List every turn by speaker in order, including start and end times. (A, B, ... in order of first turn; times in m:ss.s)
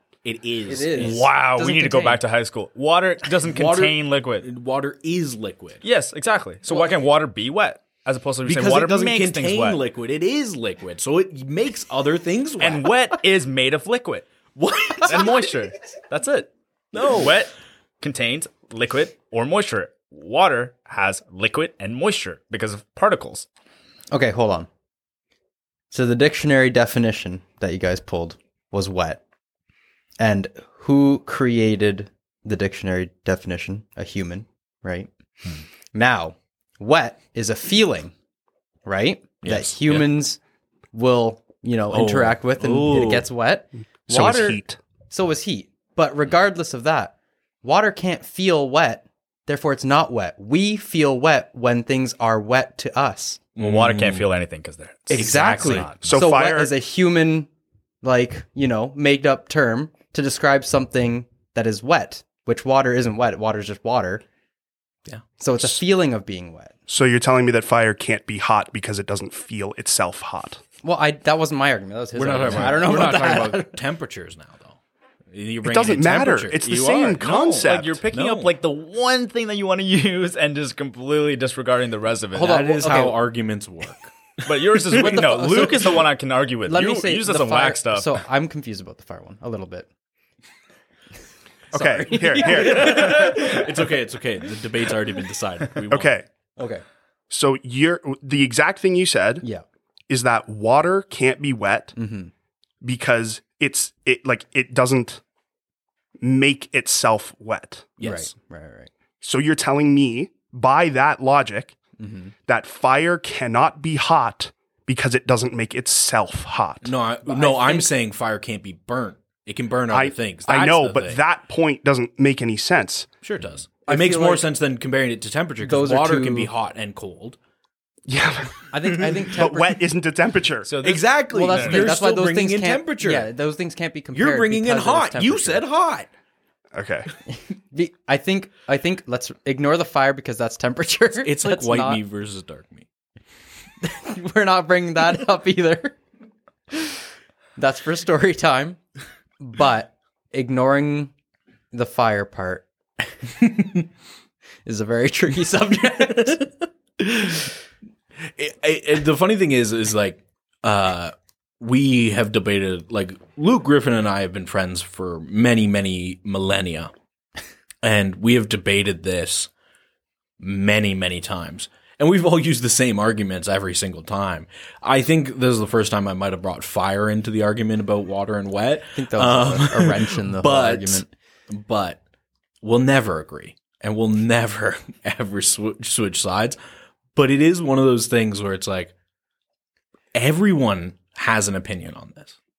0:00.2-0:01.3 A
0:00.7-0:02.2 B
0:01.0-0:04.5 C
0:03.4-0:05.8 A
0:05.8-0:09.8 C
0:08.5-0:12.9 A
0:12.6-0:14.3 C
0:14.6-0:15.5 A
0:15.0-0:23.5 C
0:16.9-0:17.4 A
0:24.1-0:24.7 B
0:25.9-0:29.2 B
0:30.2-0:35.1 B
0:35.9-0:38.1 B
0:38.8-0:40.4 B
0:39.4-0:40.1 A
0:40.9-0:53.4 B
0:41.9-0:43.3 A
0:44.1-0:44.8 D
0:53.6-0:54.3 A
0:53.6-0:56.2 C
0:55.1-0:57.5 B
0:55.1-0:55.9 A
0:56.0-0:56.7 D
0:58.0-1:04.2 B
1:05.4-1:06.7 B
1:06.9-1:10.6 D
1:10.8-1:13.8 B
1:12.2-1:14.8 A
1:15.3-1:18.5 A
1:15.6-1:18.0 D
1:17.6-1:22.6 C
1:22.4-1:23.2 B
1:22.4-1:24.2 A
1:24.4-1:28.2 C
1:25.0-1:26.0 B
1:26.7-1:29.9 B
1:31.7-1:33.6 B
1:31.7-1:33.4 D
1:32.4-1:36.1 A
1:35.9-1:36.2 D
1:36.6-1:36.8 B
1:37.3-1:39.4 D
1:40.1-1:42.0 D
1:42.0-1:42.3 B
1:42.8-1:45.2 D
1:46.2-1:47.9 D
1:48.0-1:48.3 A
1:48.0-1:48.9 B
1:49.2-1:51.8 D
1:52.0-1:52.3 B
1:52.5-1:56.9 D
1:56.8-2:01.2 A
1:57.2-1:57.9 B
1:59.9-2:03.1 D
2:03.2-2:07.4 A
2:03.9-2:04.5 B
2:05.6-2:06.5 B
2:08.1-2:08.6 D
2:08.7-2:09.8 B
2:09.3-2:10.7 D
2:10.7-2:12.0 C
2:10.8-2:13.3 A
2:11.3-2:15.6 B
2:14.1-2:16.1 A
2:16.7-2:17.1 D
2:17.3-2:22.0 B
2:21.2-2:22.9 A
2:23.8-2:26.0 B
2:26.7-2:27.0 B
2:27.6-2:28.8 B
2:29.4-2:31.1 B
2:31.7-2:32.7 B
2:33.4-2:33.8 A
2:34.7-2:36.5 B
2:36.3-2:37.5 A
2:38.3-2:46.9 A
2:47.8-2:49.5 A
2:50.4-3:02.0 A
2:59.0-3:01.1 B
3:02.6-3:06.6 A
3:07.2-3:08.9 A
3:10.2-3:12.4 A